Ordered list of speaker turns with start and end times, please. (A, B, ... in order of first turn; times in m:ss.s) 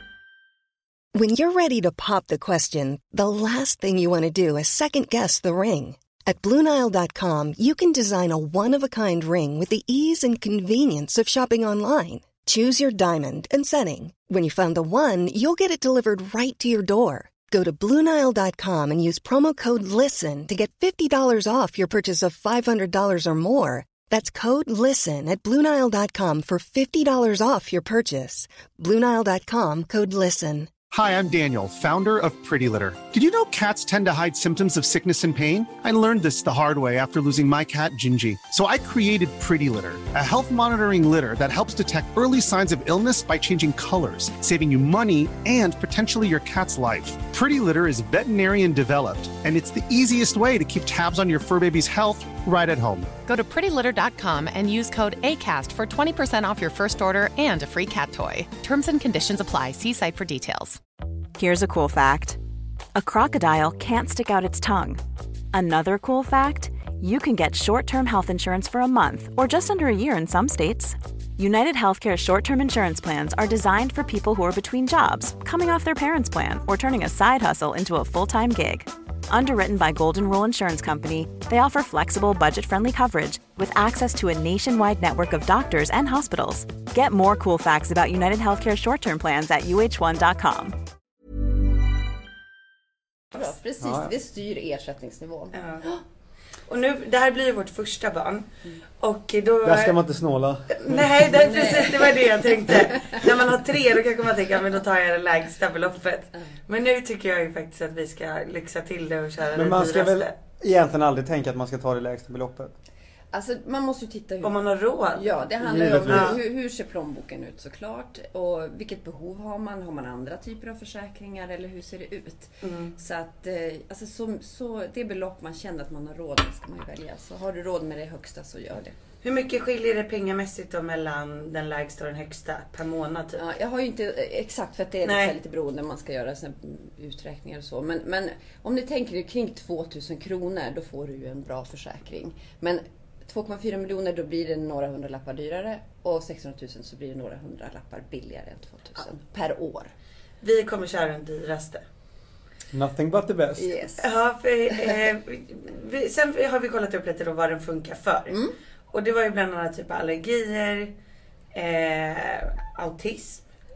0:01.1-0:30.8 A
0:30.9-0:53.1 B
0:53.3-1:00.8 C
1:01.4-1:02.4 D
1:03.0-1:05.0 D
1:05.5-1:30.8 D
1:33.3-1:36.0 E
1:33.8-1:34.1 F
1:35.5-1:35.8 G
1:36.7-1:38.5 G
1:39.0-1:40.0 G
1:39.6-1:41.3 F
1:40.8-1:50.3 G
1:41.3-1:43.2 E
1:49.6-1:52.7 F
1:53.3-1:54.6 E
1:54.4-1:55.4 G
1:55.1-2:09.0 E
1:55.6-1:56.4 F
1:56.1-1:56.4 G
2:02.6-2:03.0 G
2:09.2-2:13.4 G
2:13.4-2:29.9 E
2:15.0-2:15.4 G
2:30.4-2:31.8 G
2:32.7-2:33.7 F
2:33.6-2:34.1 E
2:34.0-2:38.4 G
2:38.3-2:38.6 E
2:38.9-2:40.9 G
2:41.5-2:43.4 G